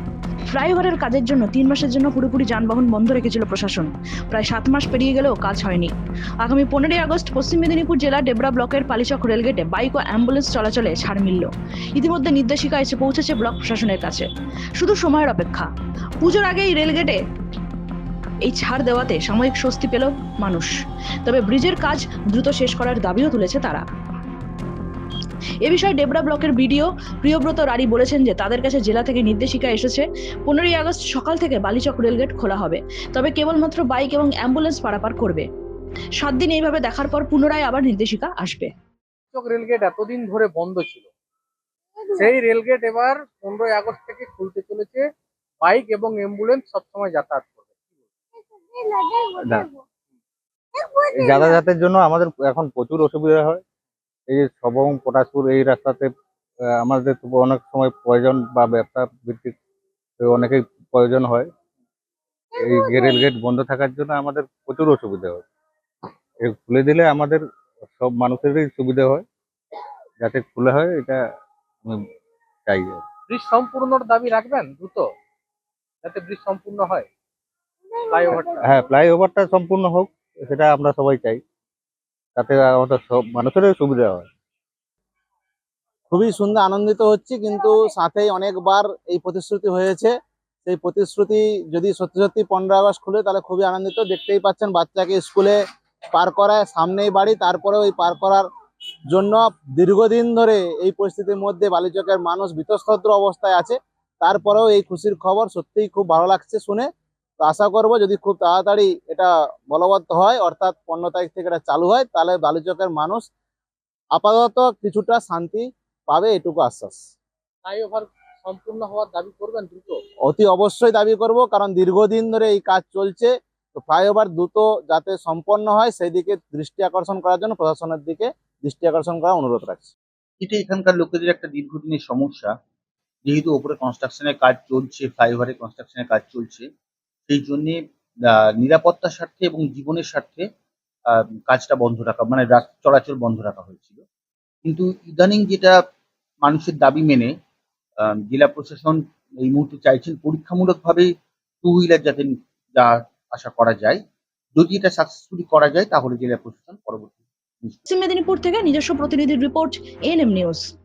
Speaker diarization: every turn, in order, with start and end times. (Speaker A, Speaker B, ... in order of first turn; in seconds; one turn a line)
Speaker A: 0.5-5.9
Speaker A: 6.4-14.2
Speaker A: 14.8-15.7
Speaker A: 16.2-17.2
Speaker A: 18.4-20.7
Speaker A: 21.2-23.8
Speaker A: 25.6-35.4
Speaker A: 36.2-38.7
Speaker B: 39.3-41.1
Speaker B: 42.1-45.0
Speaker B: 45.6-47.7
Speaker C: 49.4-49.7
Speaker C: 51.0-53.6
Speaker C: 54.3-56.1
Speaker C: 56.8-59.5
Speaker C: 60.2-61.5
Speaker C: 62.5-65.4
Speaker C: 66.4-67.4
Speaker C: 68.0-69.2
Speaker C: 70.2-71.2
Speaker C: 72.7-73.0
Speaker B: 73.3-75.0
Speaker B: 76.0-77.1
Speaker B: 78.0-78.7
Speaker C: 78.3-81.4
Speaker C: 82.3-84.3
Speaker D: 86.1-90.1
Speaker D: 90.6-95.5
Speaker D: 96.1-98.5
Speaker D: 99.1-106.9
Speaker D: 107.4-113.2
Speaker D: 114.1-117.0
Speaker B: 117.6-120.0
Speaker D: 120.2-129.9
Speaker E: 130.4-132.5
Speaker E: 133.2-136.7
Speaker E: 137.3-137.8
Speaker E: 138.3-140.4
Speaker E: 141.1-144.0
Speaker E: 144.6-145.8
Speaker E: 146.4-147.3
Speaker E: 148.0-151.1
Speaker E: 151.6-154.0
Speaker E: 154.6-157.8
Speaker A: 157.9-160.6